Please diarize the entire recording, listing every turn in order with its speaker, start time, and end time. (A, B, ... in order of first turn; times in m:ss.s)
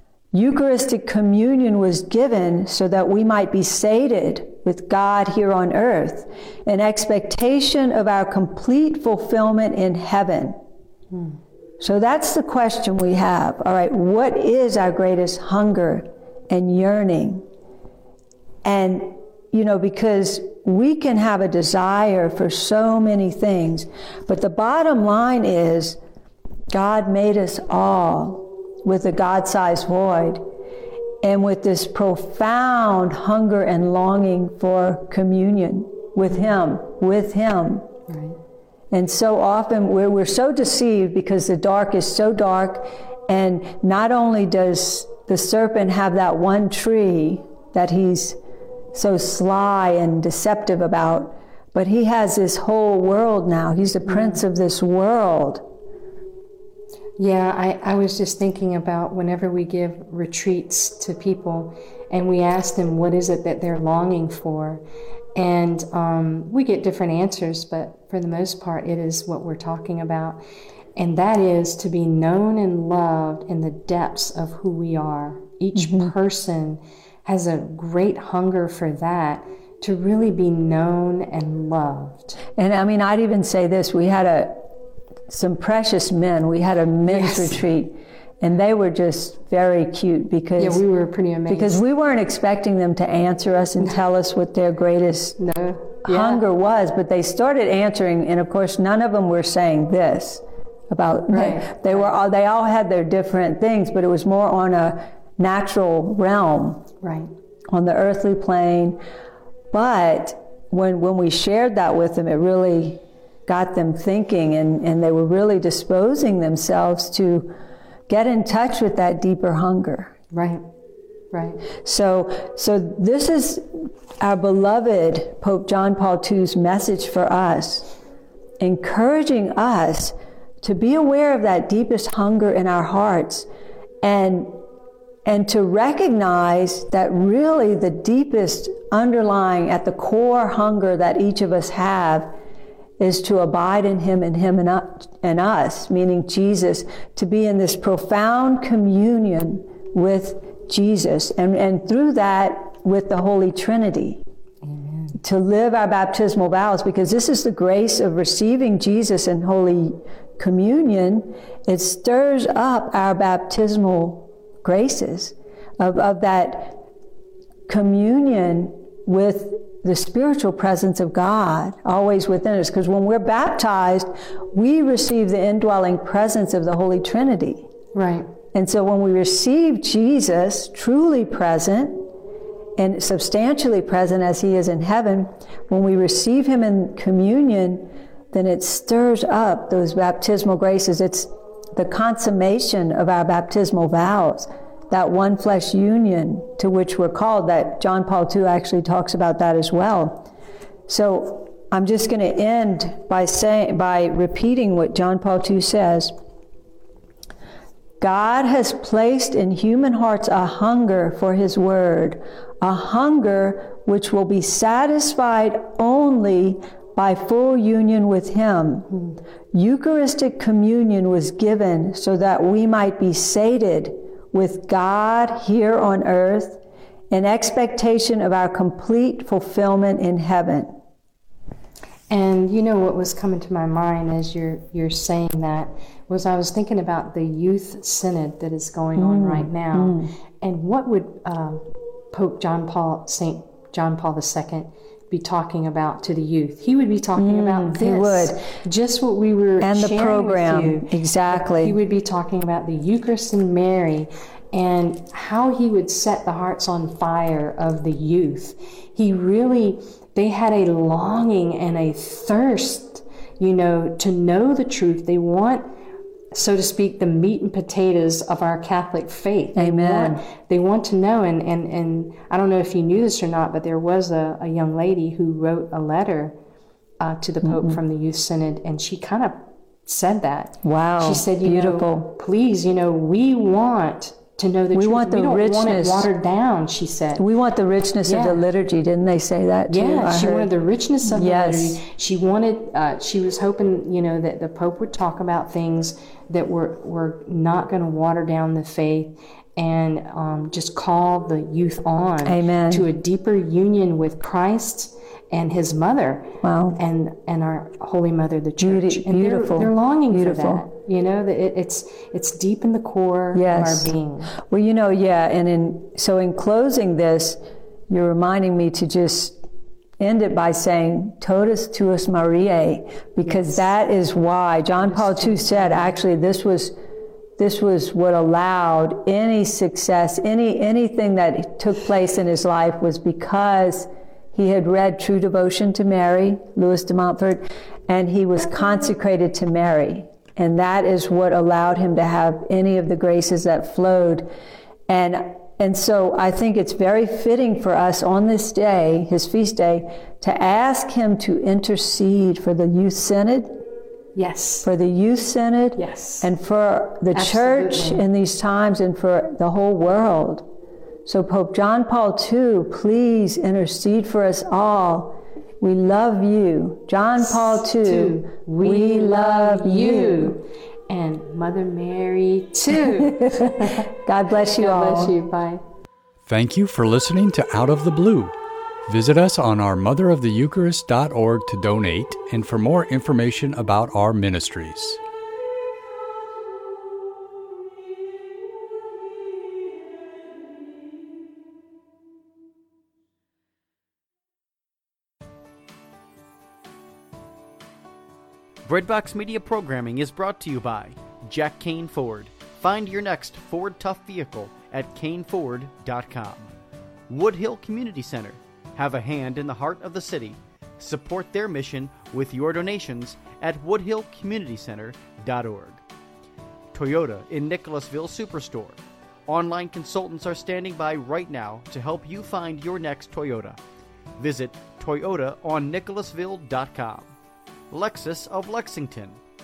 0:00.3-0:10.6 A
0:11.8-0:17.4 A
0:18.6-0:26.0 A
0:26.7-0:30.4 A
0:31.2-0:37.9 A
0:38.1-0:38.4 B
0:38.9-0:48.4 A
0:48.9-0:55.6 A
0:57.2-1:04.8 B
1:05.4-1:10.4 B
1:11.0-1:22.4 B
1:15.8-1:16.1 A
1:22.6-1:24.7 A
1:25.3-1:30.8 A
1:27.1-1:27.6 B
1:30.6-1:31.8 B
1:31.5-1:35.4 A
1:35.4-1:36.4 B
1:36.0-1:46.9 A
1:41.3-1:42.0 B
1:47.0-1:47.3 B
1:47.7-1:49.0 A
1:49.7-1:57.5 A
1:58.1-2:00.2 A
2:00.3-2:00.6 B
2:01.3-2:01.6 B
2:01.8-2:07.9 A
2:08.6-2:13.5 A
2:14.0-2:14.6 A
2:15.3-2:22.3 A
2:23.0-2:34.2 A
2:34.6-2:35.2 B
2:35.2-2:46.8 A
2:47.7-2:57.7 A
2:57.9-2:58.3 B
2:58.5-3:02.1 A
3:02.8-3:20.3 A
3:20.9-3:26.1 A
3:28.0-3:38.9 A
3:39.5-3:46.6 A
3:47.1-3:50.7 A
3:52.1-4:25.7 B
3:59.0-4:00.1 A
4:07.2-4:08.4 A
4:09.6-4:11.8 A
4:26.3-4:36.4 B
4:29.6-4:30.2 A
4:37.0-4:47.2 B
4:37.4-4:37.8 A
4:40.6-4:42.1 A
4:44.7-4:46.1 A
4:47.2-4:50.5 A
4:48.0-4:48.4 B
4:49.7-5:14.4 B
4:51.0-4:51.8 A
5:02.2-5:02.9 A
5:06.4-5:06.8 A
5:08.6-5:10.6 A
5:13.3-5:19.4 A
5:20.0-5:26.8 A
5:24.8-5:25.8 B
5:27.4-5:44.3 A
5:44.9-5:53.6 A
5:54.2-5:54.7 B
5:54.6-6:00.5 A
5:55.8-5:56.3 B
5:57.1-5:58.0 B
6:01.0-6:10.4 A
6:07.4-6:13.9 B
6:13.0-6:15.2 A
6:14.6-6:15.6 B
6:16.3-6:18.3 C
6:18.9-6:25.0 C
6:38.7-6:46.5 D
6:47.1-6:55.8 D
6:56.7-7:03.6 D
7:04.2-7:07.1 D
7:07.7-7:09.2 D